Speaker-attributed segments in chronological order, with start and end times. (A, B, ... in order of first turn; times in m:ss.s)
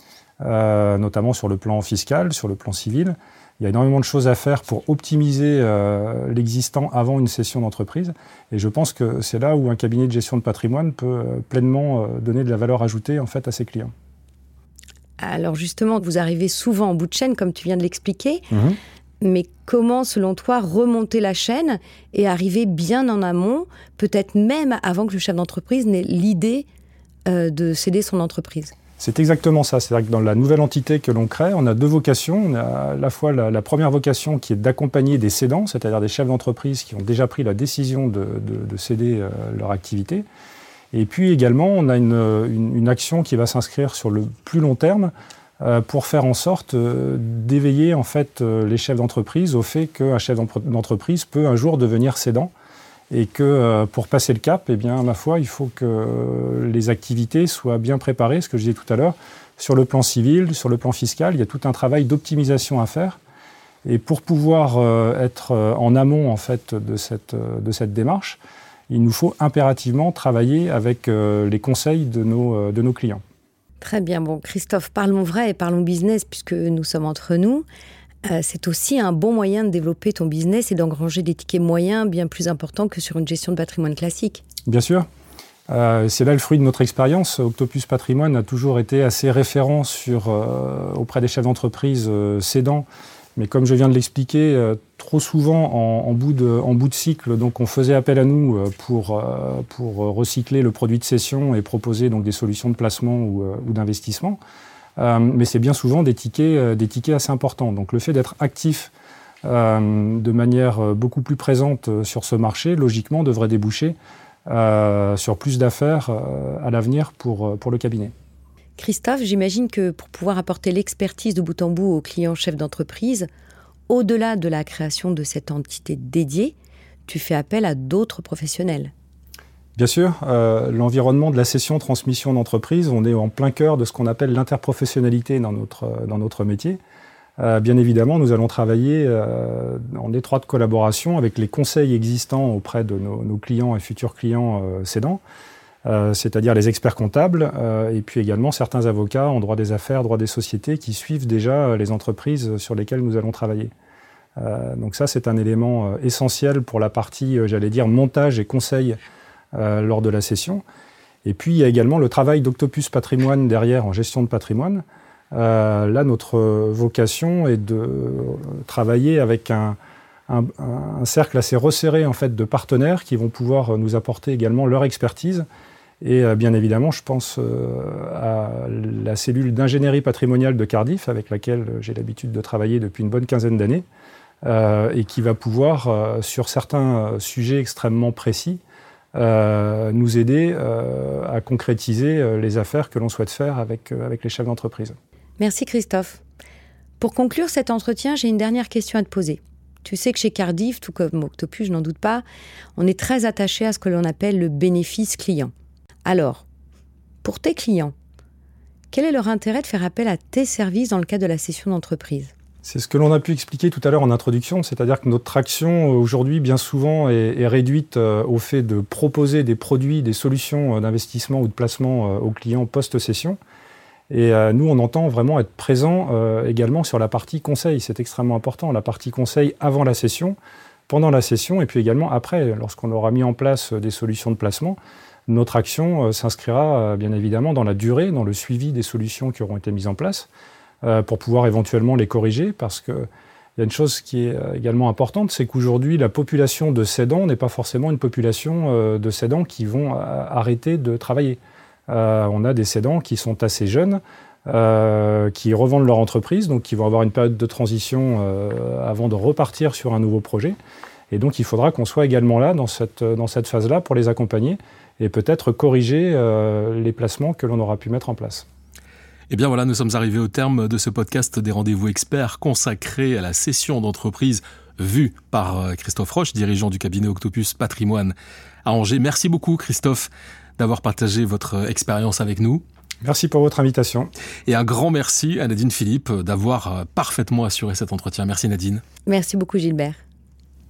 0:00.4-0:13.9 A
0:15.2-0:18.4 B
0:18.5-0:18.8 A
0:19.2-0:26.7 B
0:27.3-0:28.7 B
0:29.0-0:40.3 A
0:40.9-0:52.5 A
0:53.1-1:03.2 A
1:03.8-1:13.2 A
1:13.8-1:17.6 B
1:18.2-1:24.4 B
1:24.7-1:25.1 A
1:25.7-1:44.4 A
1:45.0-1:48.9 A
1:49.4-1:54.0 A
1:54.5-1:58.1 A
1:58.8-2:03.3 B
2:03.9-2:06.6 B
2:07.1-2:08.9 B
2:09.8-2:16.8 A
2:17.4-2:25.2 A
2:25.8-2:33.7 A
2:34.4-2:39.0 A
2:39.5-2:40.6 A
2:41.2-2:49.8 A
2:50.3-2:55.4 A
2:56.0-3:03.8 A
3:04.4-3:08.6 A
3:09.1-3:15.0 A
3:15.4-3:16.2 B
3:17.0-3:22.2 B
3:22.8-3:25.5 B
3:26.0-3:26.4 B
3:27.2-3:27.9 B
3:28.9-3:32.3 B
3:32.6-3:43.4 A
3:44.1-3:50.4 A
3:50.9-4:00.3 A
4:00.8-4:20.6 A
4:21.1-4:28.5 A
4:29.3-4:38.1 C
4:38.6-4:42.6 C
4:43.0-4:44.1 A
4:44.5-4:48.8 C
4:49.1-4:50.0 B